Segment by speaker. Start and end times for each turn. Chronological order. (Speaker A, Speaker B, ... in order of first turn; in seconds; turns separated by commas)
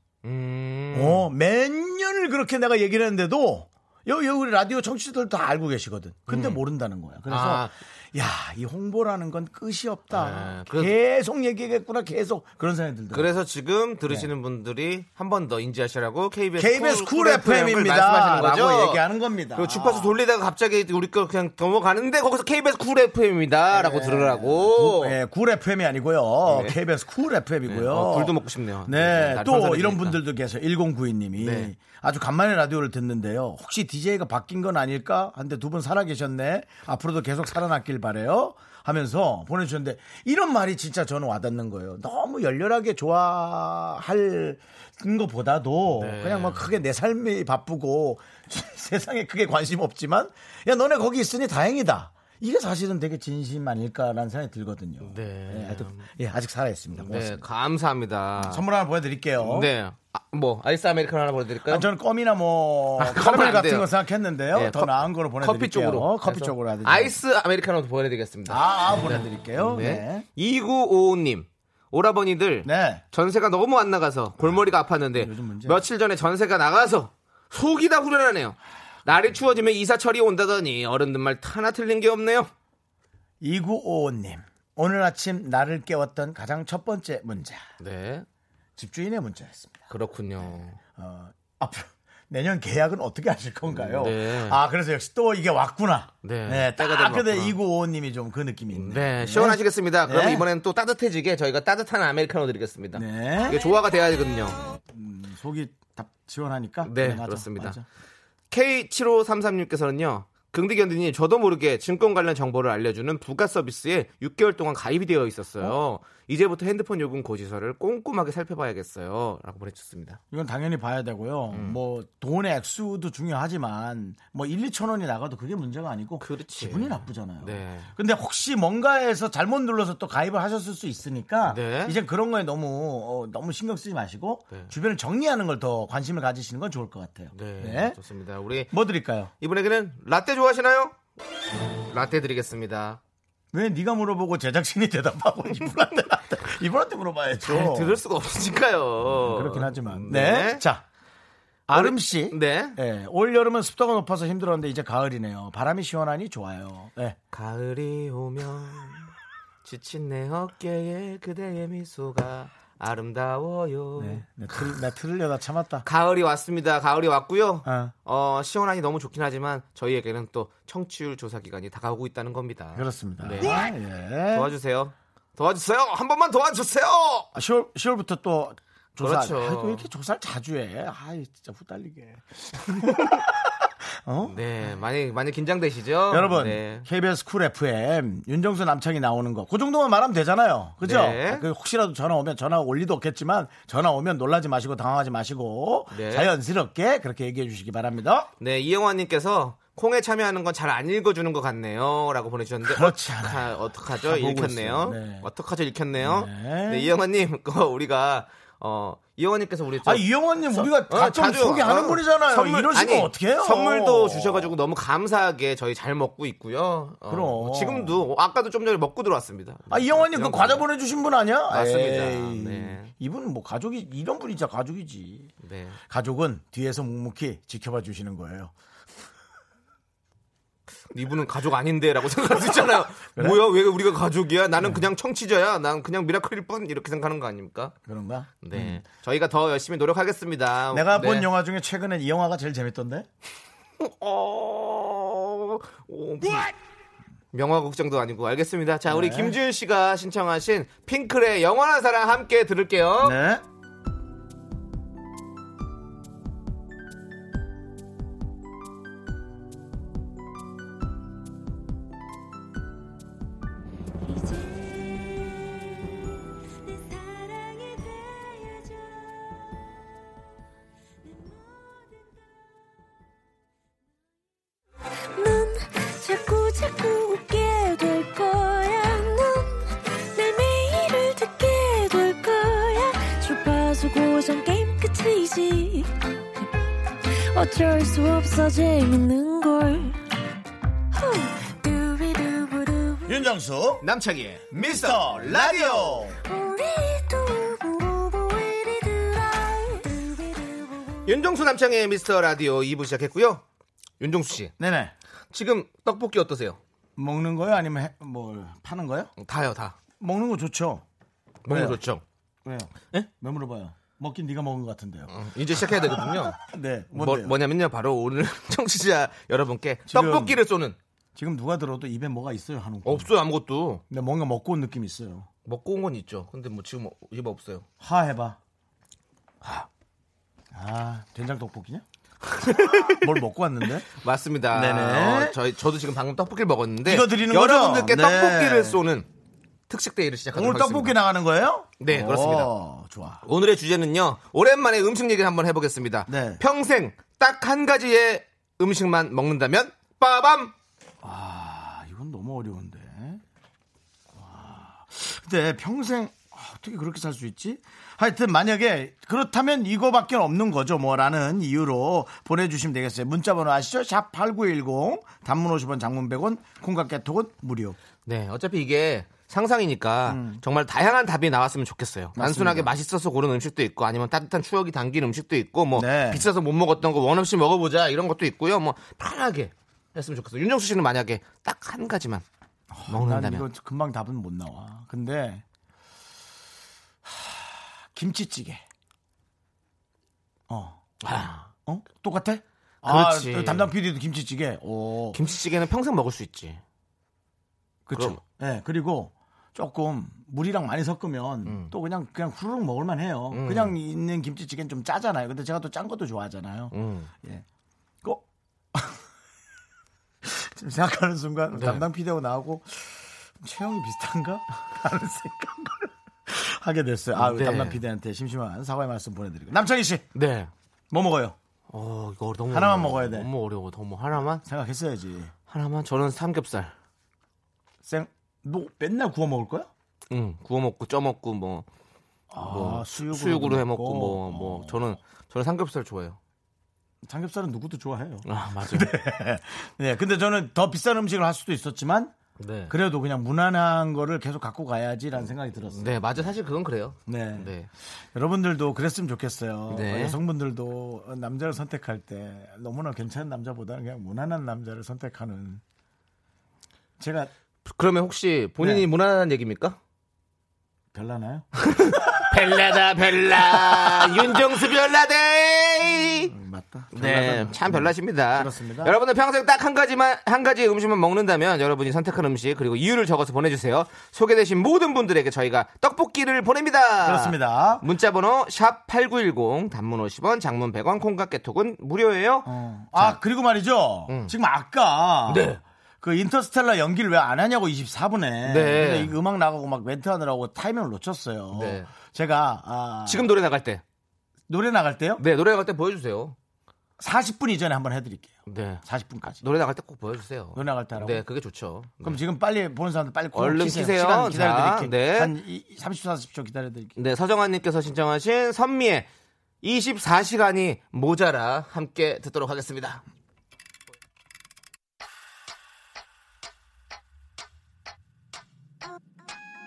Speaker A: 0.2-1.3, Speaker B: 0.9-13.3, Speaker A: 6.3-6.6, Speaker A: 7.3-7.8, Speaker A: 10.1-10.9, Speaker A: 13.1-19.0, Speaker B: 16.6-20.1, Speaker A: 19.6-25.2, Speaker B: 23.7-57.4, Speaker A: 26.5-26.8, Speaker A: 27.7-30.2, Speaker A: 31.4-31.7, Speaker A: 45.9-46.7, Speaker A: 55.0-56.1, Speaker A: 57.0-58.6, Speaker B: 58.4-59.7, Speaker A: 59.4-61.9, Speaker B: 61.7-67.2, Speaker A: 63.0-63.9, Speaker A: 64.5-82.5, Speaker B: 68.5-70.3, Speaker B: 72.6-73.0, Speaker B: 75.2-75.8, Speaker B: 83.4-87.6, Speaker A: 87.8-88.3, Speaker B: 88.8-89.9, Speaker A: 89.9-90.8, Speaker B: 90.4-100.5, Speaker A: 93.7-94.6, Speaker A: 96.2-97.6, Speaker A: 98.7-104.6, Speaker B: 103.0-103.6, Speaker B: 104.9-107.8, Speaker A: 106.8-107.8, Speaker A: 108.5-120.2, Speaker B: 120.3-138.0, Speaker A: 121.5-121.8, Speaker A: 126.2-127.9, Speaker A: 131.4-132.0, Speaker A: 137.3-138.7, Speaker B: 138.7-139.3, Speaker A: 139.4-141.0, Speaker A: 141.9-143.0, Speaker B: 143.5-148.0, Speaker A: 147.4-150.6, Speaker B: 149.1-150.8, Speaker B: 151.7-157.2, Speaker A: 151.7-152.8, Speaker A: 157.3-159.1, Speaker A: 159.6-164.7, Speaker B: 164.0-165.9, Speaker A: 165.8-173.7, Speaker B: 167.7-167.9, Speaker B: 172.8-174.5, Speaker A: 174.3-177.3, Speaker B: 177.3-184.7, Speaker A: 179.0-179.9, Speaker A: 184.3-186.9, Speaker B: 186.1-198.3, Speaker A: 190.8-191.5, Speaker A: 195.9-196.3, Speaker A: 198.4-220.6, Speaker B: 202.6-205.3, Speaker B: 206.0-206.9, Speaker B: 209.8-214.5, Speaker B: 217.1-218.0, Speaker B: 219.7-225.3, Speaker A: 221.5-222.9, Speaker A: 225.4-225.8, Speaker B: 225.9-228.5, Speaker A: 230.9-237.8, Speaker B: 233.2-233.4, Speaker B: 234.6-234.9, Speaker B: 237.8-238.8, Speaker A: 238.4-241.3, Speaker B: 240.7-243.1, Speaker A: 243.8-246.5, Speaker A: 247.3-253.2, Speaker B: 248.9-249.4, Speaker B: 253.0-253.4, Speaker C: 264.0-265.7, Speaker C: 266.6-269.3, Speaker C: 271.1-272.2, Speaker C: 275.2-285.9, Speaker C: 287.3-290.0, Speaker C: 290.9-293.2, Speaker B: 293.1-293.9, Speaker A: 293.8-296.1, Speaker B: 294.5-296.2, Speaker C: 296.3-300.9, Speaker A: 301.1-303.4, Speaker A: 304.0-304.5, Speaker B: 304.6-304.9, Speaker A: 305.3-306.6, Speaker B: 307.0-309.1, Speaker A: 309.2-309.8, Speaker B: 310.0-310.9, Speaker A: 311.4-312.0, Speaker B: 311.5-311.8, Speaker B: 312.4-317.4, Speaker A: 315.1-316.4, Speaker A: 316.9-320.8, Speaker B: 319.9-320.4, Speaker B: 321.1-323.1, Speaker A: 322.9-323.8, Speaker B: 323.9-325.3, Speaker A: 325.5-327.7, Speaker B: 327.8-328.4, Speaker B: 330.5-331.9, Speaker A: 332.3-333.1, Speaker B: 332.4-333.9, Speaker A: 333.9-339.1, Speaker B: 334.5-335.4, Speaker B: 336.9-338.8, Speaker A: 339.7-341.0, Speaker B: 340.3-343.2, Speaker A: 341.8-342.5, Speaker A: 343.2-350.5, Speaker B: 346.1-346.4, Speaker B: 351.0-353.2, Speaker B: 354.1-367.8, Speaker A: 368.1-382.2, Speaker B: 370.1-370.4, Speaker B: 372.1-372.7, Speaker B: 375.8-376.2, Speaker B: 382.7-385.4, Speaker A: 382.9-383.5, Speaker B: 387.1-388.6, Speaker B: 390.5-390.8, Speaker A: 391.0-391.5, Speaker B: 391.7-395.2, Speaker A: 392.8-393.7, Speaker A: 395.1-396.6, Speaker B: 397.9-407.4, Speaker A: 397.9-398.2, Speaker A: 401.4-401.7, Speaker A: 403.3-403.8, Speaker A: 406.7-407.1, Speaker B: 408.0-409.0, Speaker B: 410.2-420.1, Speaker A: 411.5-411.9, Speaker A: 417.1-417.8, Speaker A: 420.1-420.5, Speaker B: 420.9-421.4, Speaker A: 421.7-424.4, Speaker B: 422.5-423.3, Speaker B: 424.4-425.3, Speaker A: 425.5-426.7, Speaker B: 427.8-429.7, Speaker A: 430.1-431.7, Speaker B: 432.3-434.9, Speaker A: 432.4-436.2, Speaker B: 437.0-442.1, Speaker A: 438.2-438.9, Speaker A: 442.4-442.8, Speaker B: 442.7-446.2, Speaker A: 445.7-447.7, Speaker B: 447.1-455.6, Speaker A: 449.7-450.2, Speaker B: 457.0-457.3, Speaker A: 457.7-459.8, Speaker B: 458.6-458.9, Speaker B: 460.9-462.6, Speaker A: 461.6-466.3, Speaker B: 463.2-464.4, Speaker B: 466.3-468.9, Speaker A: 466.9-483.2, Speaker B: 477.0-477.9, Speaker B: 482.4-493.3, Speaker A: 484.1-484.4, Speaker A: 485.3-485.6, Speaker A: 488.4-489.1, Speaker A: 491.5-491.9, Speaker A: 493.1-493.8, Speaker B: 494.5-495.2, Speaker A: 495.2-496.4, Speaker B: 497.0-499.4, Speaker A: 498.5-498.8, Speaker A: 499.4-502.2, Speaker B: 500.6-501.2, Speaker B: 502.0-507.0, Speaker A: 503.3-505.3, Speaker A: 507.0-509.1, Speaker A: 509.6-513.0